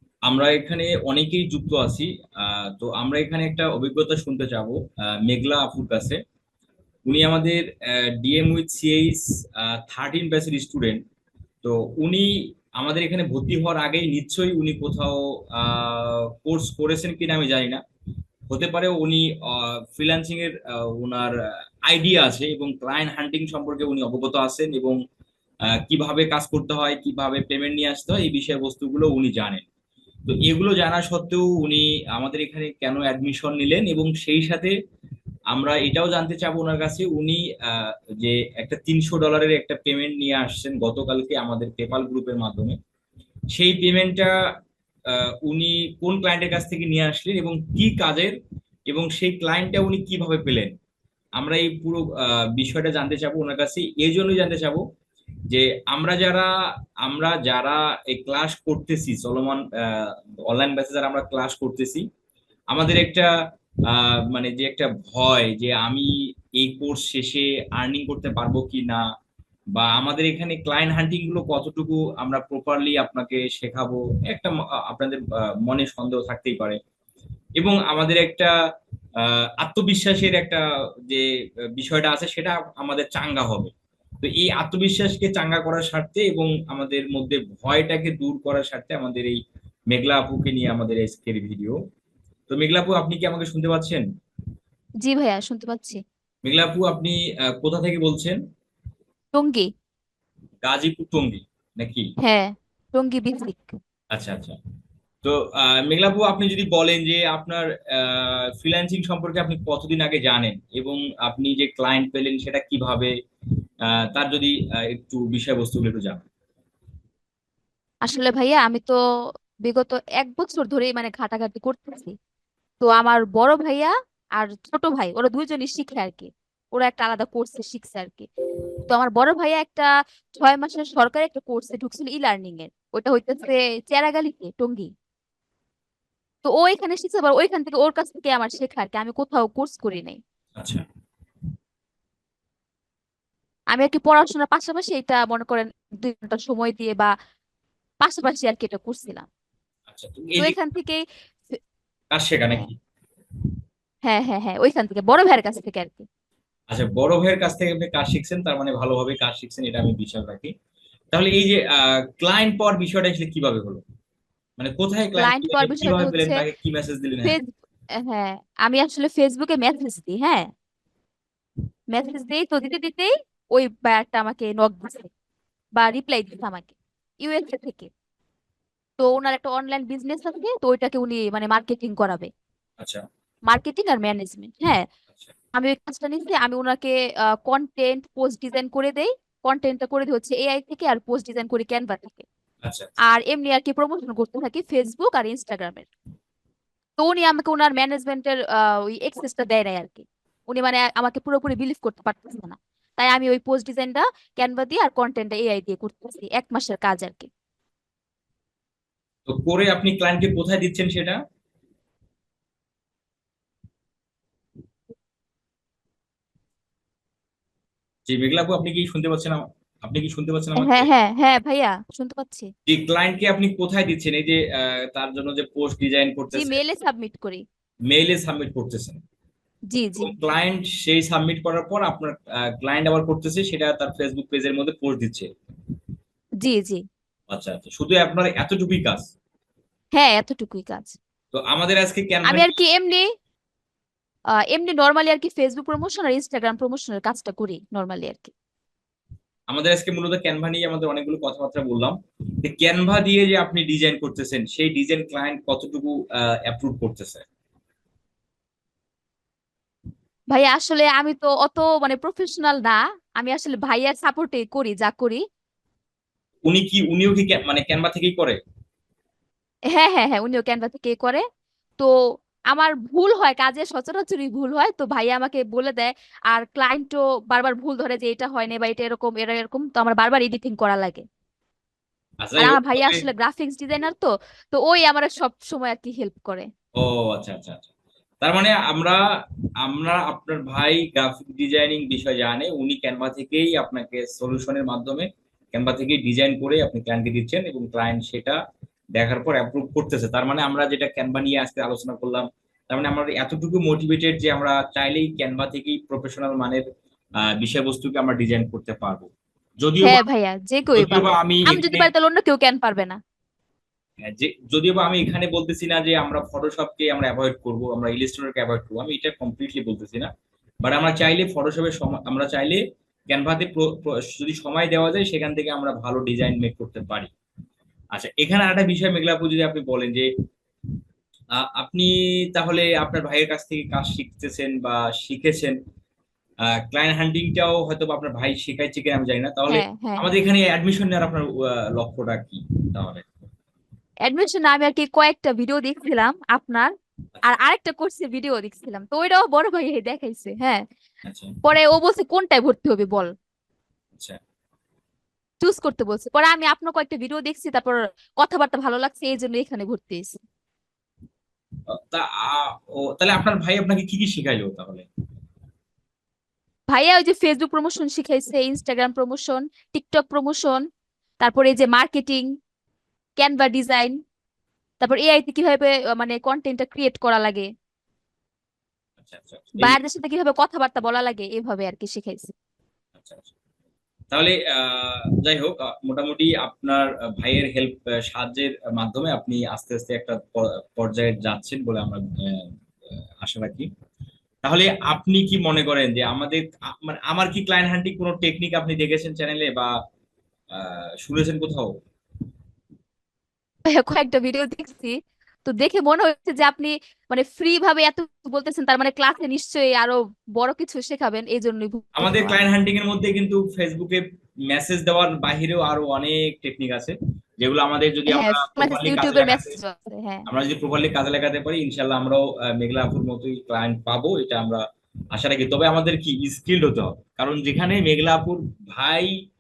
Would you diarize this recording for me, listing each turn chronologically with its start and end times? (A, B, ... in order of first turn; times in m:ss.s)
0:00.3-0:06.2 A
0:07.1-0:11.0 A
0:11.6-0:17.8 A
0:18.5-0:25.0 A
0:25.8-0:29.6 A
0:30.3-0:34.7 A
0:35.5-0:42.8 A
0:43.5-0:44.3 A
0:45.1-0:48.4 A
0:48.9-0:50.7 A
0:51.4-0:54.8 A
0:55.5-0:56.5 A
0:57.0-1:02.0 A
1:02.7-1:03.3 A
1:03.9-1:09.0 A
1:09.8-1:16.8 A
1:17.6-1:18.5 A
1:19.2-1:29.4 A
1:29.9-1:31.8 A
1:32.5-1:34.0 A
1:35.0-1:36.0 B
1:36.4-1:38.4 A
1:39.3-1:39.7 B
1:40.6-1:42.1 A
1:42.2-1:43.8 B
1:44.1-1:44.6 A
1:45.2-1:53.1 A
1:54.1-1:56.2 A
1:58.0-1:59.0 B
1:59.6-2:02.1 B
2:02.8-2:08.3 B
2:08.9-2:14.9 B
2:16.4-2:20.2 B
2:20.6-2:20.8 A
2:23.7-2:27.1 B
2:28.0-2:29.2 B
2:29.9-2:30.6 A
2:30.4-2:31.6 B
2:32.1-2:32.8 A
2:34.0-2:36.1 B
2:36.7-2:40.5 A
2:41.1-2:43.8 A
2:44.6-2:47.4 A
2:45.2-2:46.4 B
2:47.2-2:50.5 B
2:51.9-2:55.1 B
2:55.8-2:57.9 B
2:59.0-3:02.3 B
3:03.5-3:04.8 B
3:05.5-3:12.2 B
3:12.6-3:12.9 A
3:13.1-3:15.9 B
3:17.0-3:27.3 B
3:29.3-3:31.2 A
3:38.1-3:40.9 A
3:40.6-3:42.5 B
3:42.7-3:46.6 A
3:46.3-3:47.4 B
3:47.9-3:49.0 A
3:49.7-3:50.1 B
3:50.0-3:55.3 A
3:56.4-3:56.8 B
3:57.3-3:59.1 A
3:59.9-4:01.0 B
4:01.3-4:02.5 A
4:02.2-4:03.1 B
4:04.5-4:08.3 B
4:09.5-4:17.2 A
4:20.3-4:25.2 B
4:26.5-4:28.4 A
4:29.7-4:31.2 B
4:32.5-4:41.0 B
4:42.2-4:43.0 A
4:42.4-4:46.5 B
4:46.8-4:47.7 A
4:48.2-4:49.0 A
4:49.6-4:58.4 A
4:59.0-5:06.6 A
5:07.4-5:09.1 A
5:09.6-5:10.0 A
5:09.8-5:13.0 B
5:10.8-5:11.9 A
5:14.1-5:20.1 A
5:20.6-5:27.1 A
5:27.9-5:30.1 A
5:31.4-5:35.6 A
5:36.6-5:43.1 A
5:39.5-5:40.1 B
5:44.0-5:46.7 B
5:47.2-5:50.6 B
5:51.1-5:51.3 A
5:51.4-5:53.1 B
5:55.4-6:00.2 B
6:01.7-6:04.9 A
6:06.7-6:10.6 B
6:11.2-6:12.3 B
6:13.2-6:14.0 B
6:14.8-6:17.5 B
6:19.0-6:19.8 A
6:19.6-6:22.3 B
6:23.0-6:23.3 A
6:24.1-6:33.7 A
6:34.4-6:39.7 A
6:40.5-6:41.7 A
6:43.7-6:52.5 B
6:52.0-6:59.6 A
6:58.1-7:00.3 B
7:00.3-7:09.1 A